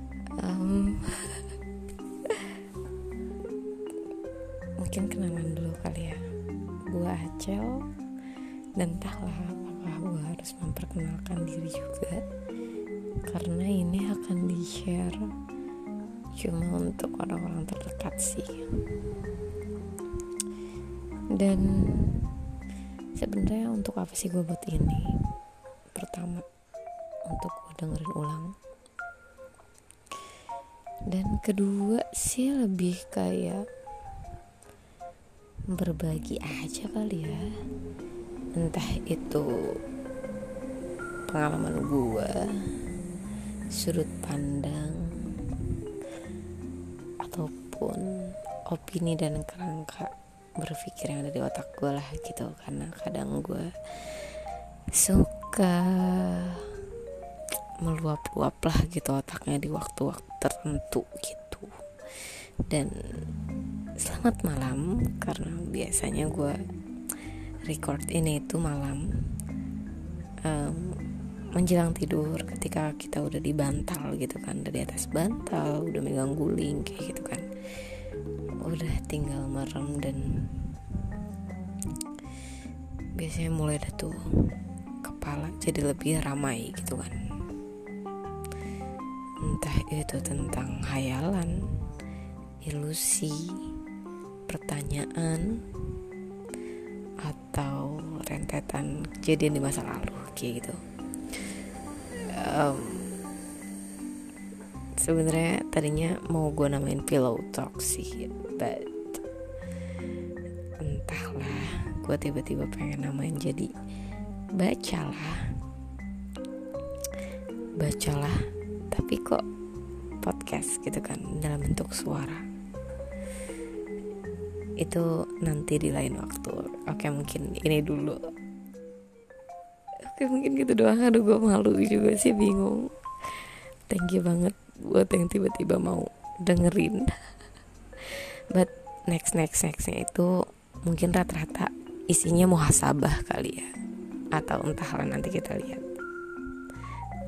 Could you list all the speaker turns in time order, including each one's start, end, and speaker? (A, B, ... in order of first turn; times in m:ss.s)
0:00.4-0:01.5 A
0:02.3-0:02.5 A
0:04.8-0:06.2 A
0:06.9-0:07.8 A
0:08.8-0:12.2 A
0:13.3-0:15.3 A
0:16.4-0:18.7 A
0:21.4-0:22.5 A
0:23.2-0:25.2 A
0:25.9-0:26.4 A
0:27.3-0:28.5 A
0:31.1-0:33.6 A
0:35.7-0:37.5 A
0:38.6-0:39.5 A
0:41.3-0:42.7 A
0:43.7-0:45.7 A
0:47.2-0:48.1 A
0:48.7-0:54.3 A
0:54.9-0:56.8 A
0:57.8-1:01.7 A
1:02.7-1:02.9 A
1:04.0-1:06.6 A
1:07.6-1:09.0 A
1:10.4-1:11.0 A
1:11.6-1:17.4 A
1:18.6-1:20.7 A
1:23.2-1:24.5 A
1:25.0-1:27.2 A
1:29.4-1:31.6 A
1:32.6-1:33.6 A
1:34.5-1:35.6 A
1:37.2-1:40.8 A
1:42.3-1:43.2 A
1:45.0-1:48.9 A
1:50.8-1:53.7 A
1:54.6-1:55.4 A
1:57.8-1:58.4 A
1:58.9-1:59.4 A
2:00.2-2:02.5 A
2:04.8-2:08.2 A
2:10.0-2:17.2 A
2:18.5-2:20.3 A
2:20.8-2:23.7 A
2:24.4-2:25.8 A